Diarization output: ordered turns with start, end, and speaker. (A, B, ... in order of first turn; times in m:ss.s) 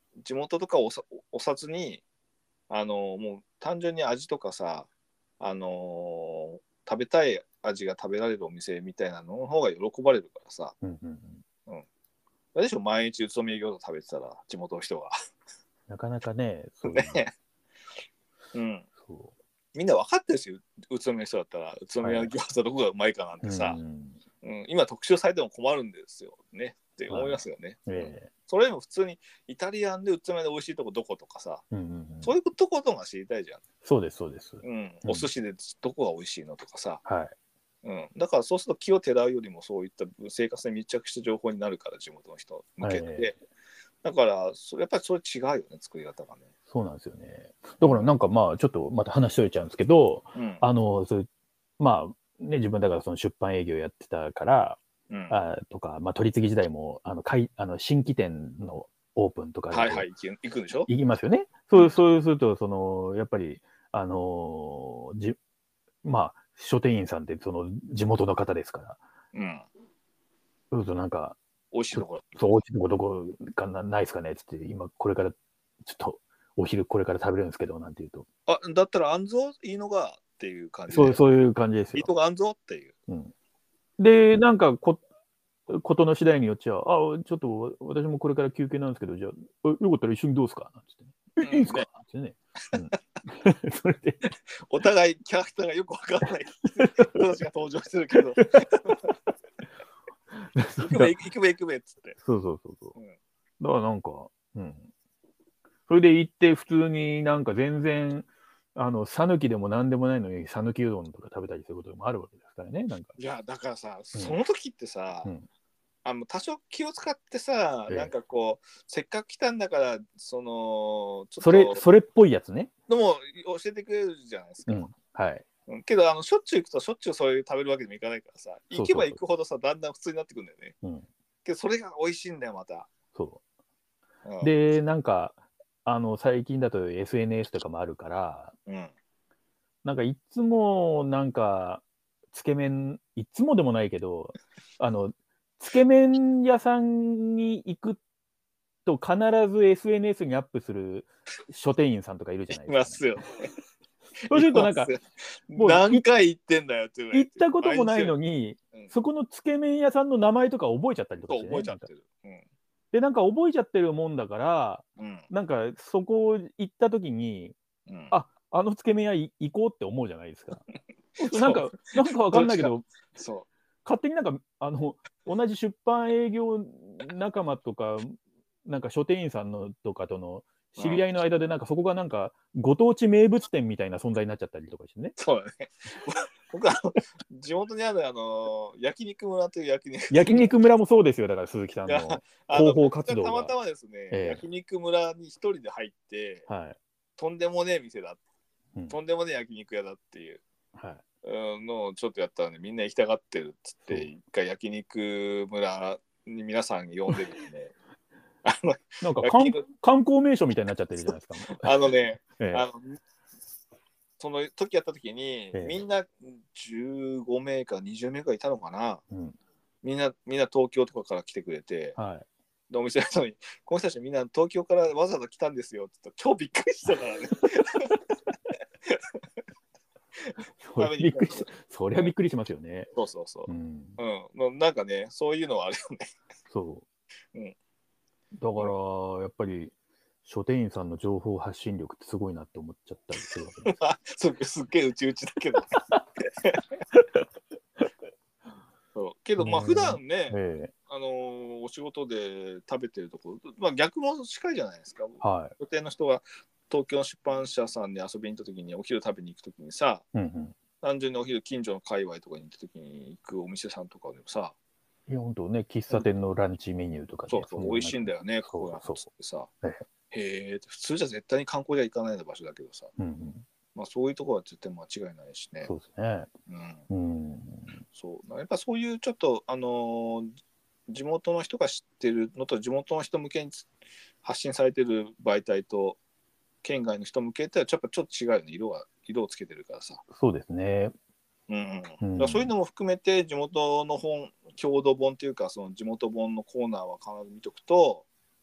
0:00.2-0:02.0 A
0:02.7-0:04.9 A
0:05.4-0:10.7 A
0:10.8-0:11.4 B
0:12.5-0:15.1 A
0:15.9-0:17.2 B
0:16.8-0:17.3 A
0:18.5-0:18.9 A
0:19.0-0:19.3 B
0:19.7-0:23.8 A
0:22.0-0:22.3 B
0:23.4-0:24.2 B
0:24.4-0:31.6 A
0:27.1-0:28.3 B
0:31.7-0:32.3 B
0:32.2-0:33.6 A
0:33.8-0:35.3 B
0:34.6-0:37.0 A
0:37.0-0:37.3 B
0:37.8-0:43.4 A
0:42.8-0:43.4 B
0:44.0-0:46.4 A
0:46.7-0:51.3 B
0:47.8-0:48.1 A
0:50.3-0:50.6 A
0:51.8-0:54.8 B
0:55.1-0:55.4 A
0:55.3-1:00.0 B
0:59.7-1:00.9 A
1:00.9-1:05.4 B
1:06.0-1:09.0 B
1:09.3-1:09.7 A
1:10.7-1:11.4 B
1:11.7-1:12.4 A
1:11.9-1:18.2 B
1:18.5-1:21.2 A
1:20.9-1:22.1 B
1:21.9-1:22.9 A
1:24.0-1:25.0 B
1:25.7-1:34.2 B
1:31.4-1:31.9 A
1:34.6-1:39.1 A
1:40.3-1:41.1 B
1:40.8-1:42.2 A
1:42.2-1:43.0 B
1:43.6-1:44.9 B
1:45.9-1:53.1 B
1:53.2-1:55.3 A
1:56.0-2:01.8 A
1:57.9-1:58.1 B
2:01.4-2:02.7 B
2:02.9-2:04.9 A
2:04.7-2:05.4 B
2:05.7-2:10.7 A
2:08.7-2:09.2 B
2:10.8-2:11.1 B
2:11.4-2:12.9 A
2:13.1-2:13.4 B
2:14.2-2:14.5 A
2:14.4-2:18.5 B
2:18.6-2:18.9 A
2:19.8-2:28.0 B
2:28.8-2:33.0 B
2:32.6-2:33.5 A
2:34.3-2:38.2 A
2:34.3-2:34.9 B
2:35.5-2:36.0 B
2:37.1-2:41.9 B
2:41.3-2:42.4 A
2:42.9-2:47.5 B
2:45.0-2:45.3 A
2:47.9-2:48.1 A
2:48.1-2:50.6 B
2:51.2-2:52.9 B
2:51.2-2:53.5 A
2:53.8-3:05.2 B
3:00.8-3:01.0 A
3:05.2-3:10.5 A
3:10.1-3:13.5 B
3:11.9-3:16.5 A
3:14.1-3:14.4 B
3:16.5-3:16.8 B
3:17.2-3:18.2 A
3:18.9-3:20.4 A
3:20.7-3:21.0 B
3:21.2-3:27.7 A
3:28.4-3:29.6 A
3:29.0-3:31.7 B
3:31.5-3:33.0 A
3:32.4-3:32.6 B
3:34.2-3:39.0 A
3:35.5-3:35.8 B
3:39.1-3:39.4 B
3:39.8-3:42.0 A
3:42.0-3:42.2 B
3:42.7-3:48.0 A
3:50.2-3:52.1 A
3:50.6-3:52.9 B
3:52.9-3:56.1 A
3:53.5-3:54.0 B
3:56.5-3:56.8 B
3:58.4-3:59.7 B
4:00.2-4:03.7 B
4:03.6-4:06.8 A
4:08.9-4:20.0 A
4:09.4-4:10.7 B
4:15.2-4:15.5 B
4:20.1-4:20.6 B
4:20.8-4:24.5 A
4:25.1-4:29.0 B
4:27.3-4:29.5 A
4:30.1-4:32.9 A
4:33.0-4:33.4 B
4:33.7-4:35.7 A
4:35.7-4:36.3 B
4:36.5-4:36.8 A
4:36.9-4:37.8 B
4:37.9-4:40.3 A
4:40.9-4:43.7 A
4:44.2-4:46.0 A
4:46.6-4:50.0 A
4:50.1-4:50.9 B
4:51.5-4:58.0 A
4:52.0-4:52.5 B